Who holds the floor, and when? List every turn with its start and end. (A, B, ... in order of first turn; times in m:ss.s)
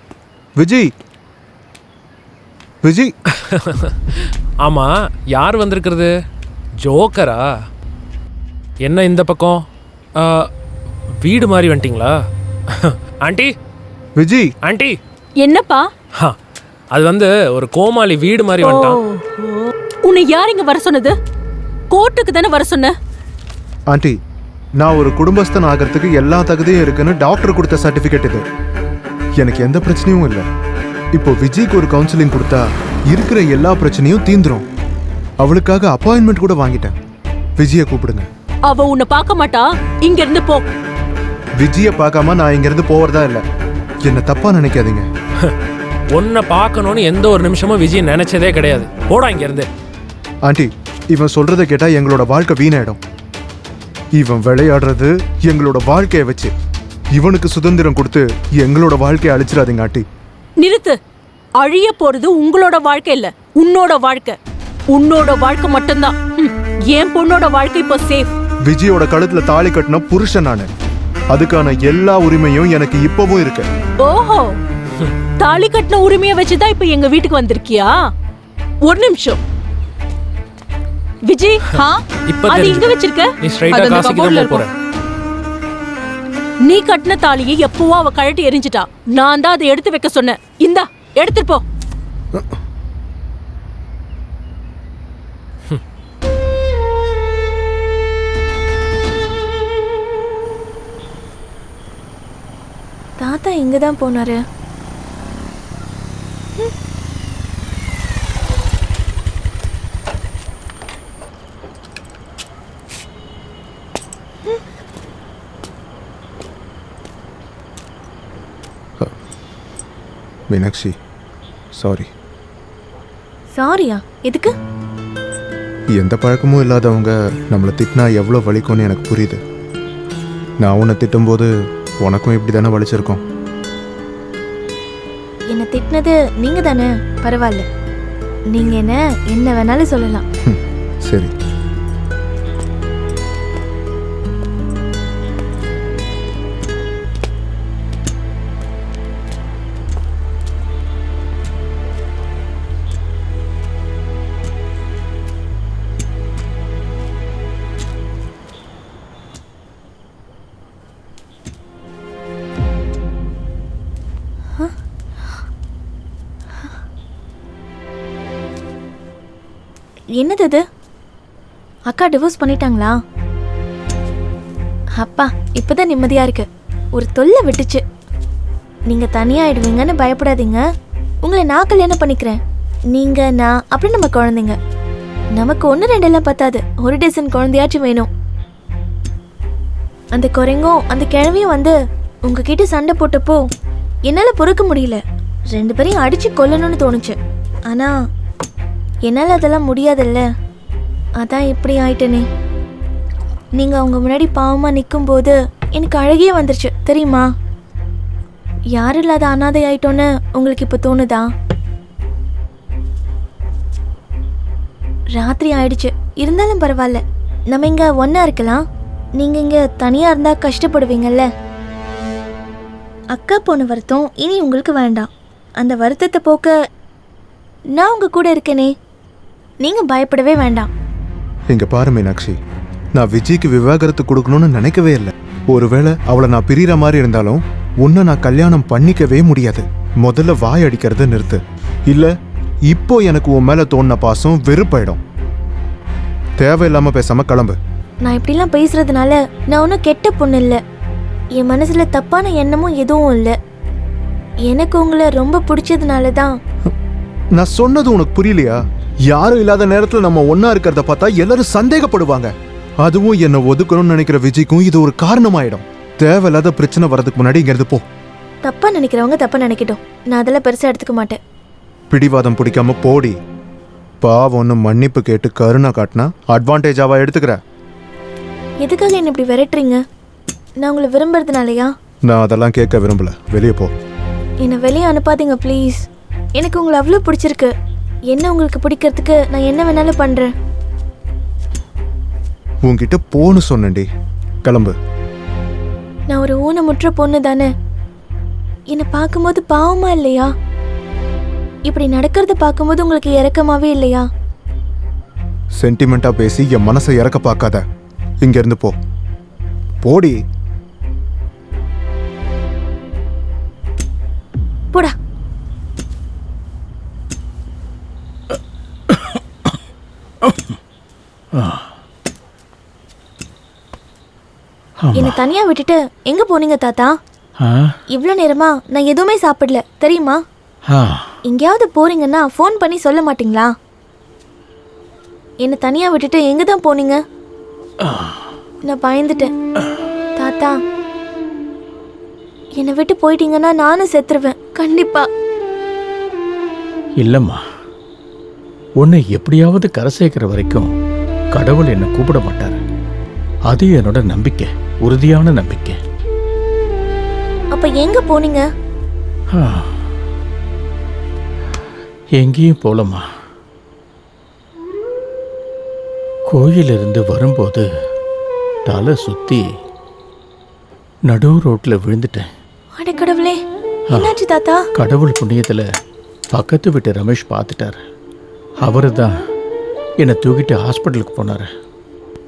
0:00.6-0:00.9 A
0:02.8-0:03.1 A
0:03.3-0:06.1 B
0:06.8-0:07.5 B
0:08.8-0:09.6 B
0:10.2-0:10.5 B
0:11.2-0:12.2 B
0:12.7-0:13.5 B
0:14.2-0:14.5 A
0:14.6-0:15.0 B
0:15.4-0:15.9 C
0:16.9-0:19.0 B
0:18.6-0:21.2 C
0:21.9-0:22.9 C
0:23.9-0:24.2 A
0:24.8-0:28.4 A
0:29.4-0:30.5 A
0:31.2-0:34.7 A
0:35.4-0:36.9 A
0:37.6-0:38.3 A
0:38.7-0:40.7 C
0:41.6-0:43.4 A
0:44.0-0:45.1 A
0:46.1-0:49.7 B
0:50.5-0:53.0 A
0:54.2-0:56.5 A
0:57.2-1:00.1 A
1:00.6-1:01.0 C
1:01.6-1:04.4 C
1:04.9-1:08.3 C
1:08.7-1:10.7 A
1:11.3-1:13.7 A
1:14.0-1:14.5 C
1:15.4-1:17.9 C
1:18.9-1:19.4 C
1:21.3-1:21.8 C
1:22.3-1:24.7 B
1:22.5-1:24.7 C
1:26.7-1:31.6 C
1:43.2-1:44.4 D
2:00.5-2:01.0 A
2:01.8-2:02.1 A
2:03.6-2:04.5 D
2:06.0-2:09.4 A
2:10.6-2:11.5 A
2:12.0-2:13.2 A
2:15.5-2:17.6 D
2:18.5-2:20.2 D
2:20.4-2:21.3 A
2:50.2-2:50.6 D
2:51.9-2:53.0 D
2:55.0-2:56.4 D
2:57.0-2:57.8 D
2:58.9-3:00.6 D
3:01.3-3:02.4 D
3:02.9-3:04.6 D
3:05.4-3:08.1 D
3:10.2-3:11.8 D
3:12.3-3:13.4 D
3:14.1-3:15.0 D
3:15.5-3:17.2 D
3:19.1-3:20.2 D
3:21.2-3:22.2 D
3:23.6-3:27.3 D
3:28.8-3:31.3 D
3:35.2-3:38.6 D
3:39.2-3:41.3 D
3:43.1-3:46.5 D
3:47.8-3:48.7 D
3:49.6-3:50.7 D
3:51.5-3:52.4 A
3:53.0-4:02.1 A
4:02.7-4:05.0 A
4:06.4-4:07.6 A
4:08.0-4:10.6 D
4:11.4-4:13.3 D
4:14.5-4:16.3 D
4:17.4-4:18.6 A
4:19.1-4:27.8 A
4:28.4-4:31.2 D
4:31.9-4:33.2 A
4:34.0-4:37.4 A
4:38.6-4:39.8 D
4:40.6-4:41.7 D
4:42.1-4:43.7 A
4:44.4-4:45.8 D
4:46.4-4:47.5 D
4:48.1-4:50.3 D
4:52.6-4:53.9 A
4:54.4-4:54.8 A
4:56.1-4:57.5 D
4:58.7-5:00.3 D
5:01.7-5:04.1 D
5:05.6-5:07.6 A
5:08.2-5:08.8 A
5:09.8-5:10.2 A
5:18.9-5:19.5 E
5:20.2-5:20.6 E
5:21.4-5:21.7 E
5:24.8-5:25.2 E
5:25.0-5:26.9 D
5:27.4-5:27.8 E
5:27.9-5:30.2 D
5:30.7-5:31.1 E
5:31.3-5:33.5 D
5:35.4-5:37.0 D
5:37.8-5:38.2 E
5:38.7-5:39.3 D
5:40.2-5:40.5 D
5:42.6-5:45.1 D
5:47.0-5:47.4 E
5:48.8-5:50.7 E
5:51.4-5:52.6 E
5:53.5-5:55.8 E
5:57.5-5:58.4 D
5:59.3-5:59.8 E
6:02.2-6:03.0 E
6:06.3-6:07.7 E
6:08.7-6:09.4 E
6:11.1-6:12.3 E
6:12.8-6:13.4 D
6:13.9-6:14.6 D
6:14.8-6:15.6 E
6:16.3-6:17.8 E
6:18.6-6:19.1 E
6:20.0-6:21.5 E